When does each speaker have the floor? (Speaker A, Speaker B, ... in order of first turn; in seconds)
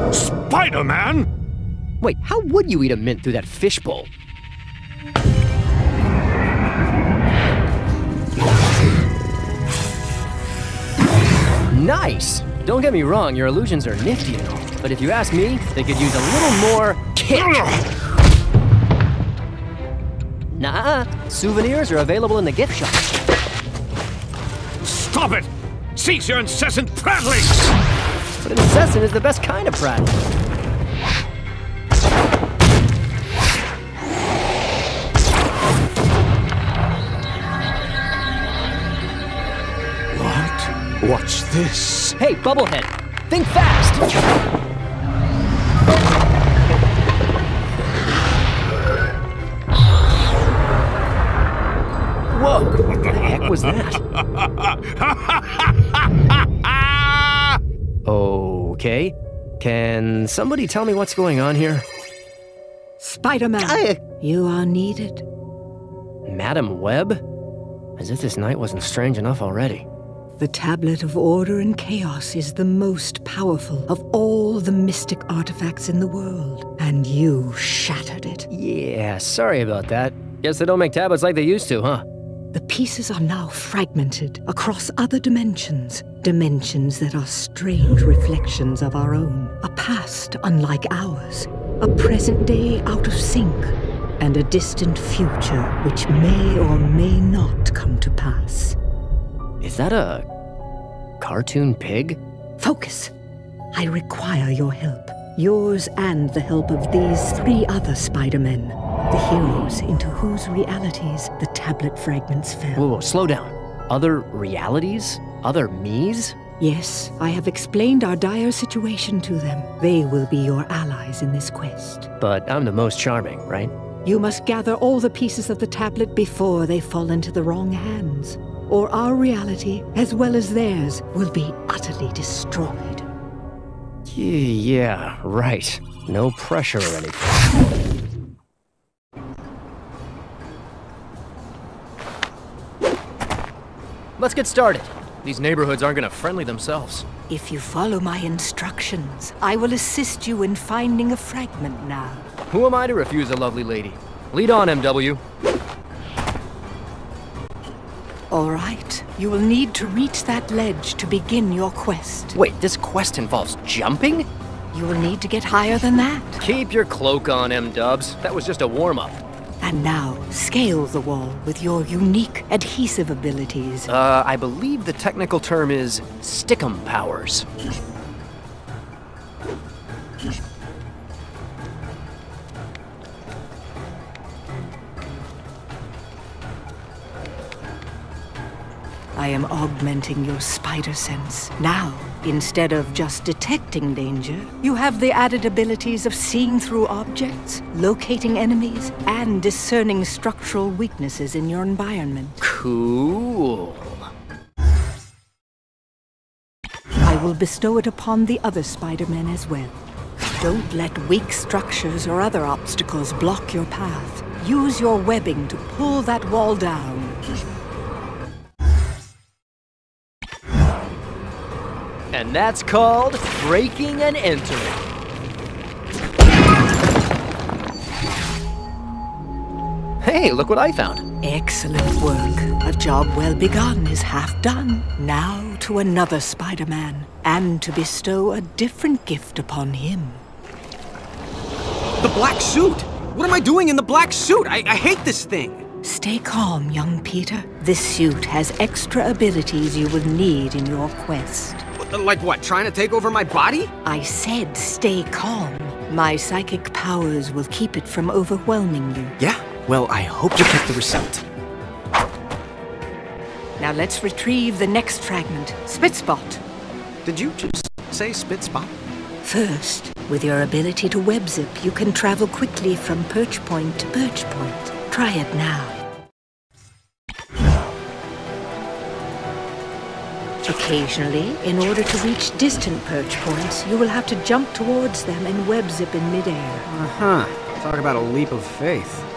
Speaker A: 0.1-1.3, 17.4-17.7, 24.8-27.7, 40.1-42.2
Speaker B: 2.0-4.1, 11.7-17.7, 20.5-23.1, 28.4-30.2, 42.2-44.0, 52.3-54.0, 58.1-61.9, 63.7-63.9, 66.3-67.2, 68.0-69.9, 78.5-82.0, 99.6-100.2, 101.2-102.2, 112.8-116.4, 122.2-123.7, 134.1-137.3, 144.2-147.1, 152.5-155.2, 162.3-164.3, 166.4-169.2, 173.9-177.5, 202.4-204.1, 222.1-224.8, 230.0-231.0
Speaker C: 63.0-65.2, 70.4-78.5, 82.5-98.8, 102.6-103.1, 103.7-112.9, 116.6-122.1, 124.0-133.1, 147.3-152.3, 158.3-162.4, 164.7-166.4, 169.6-173.9, 189.2-202.4, 207.0-209.8, 210.4-217.2, 231.2-240.2, 245.8-251.7, 253.8-259.1, 263.6-266.4, 269.2-275.8, 280.5-286.7
Speaker D: 242.0-245.7, 251.8-253.7, 259.2-261.2, 267.0-268.7, 286.7-289.1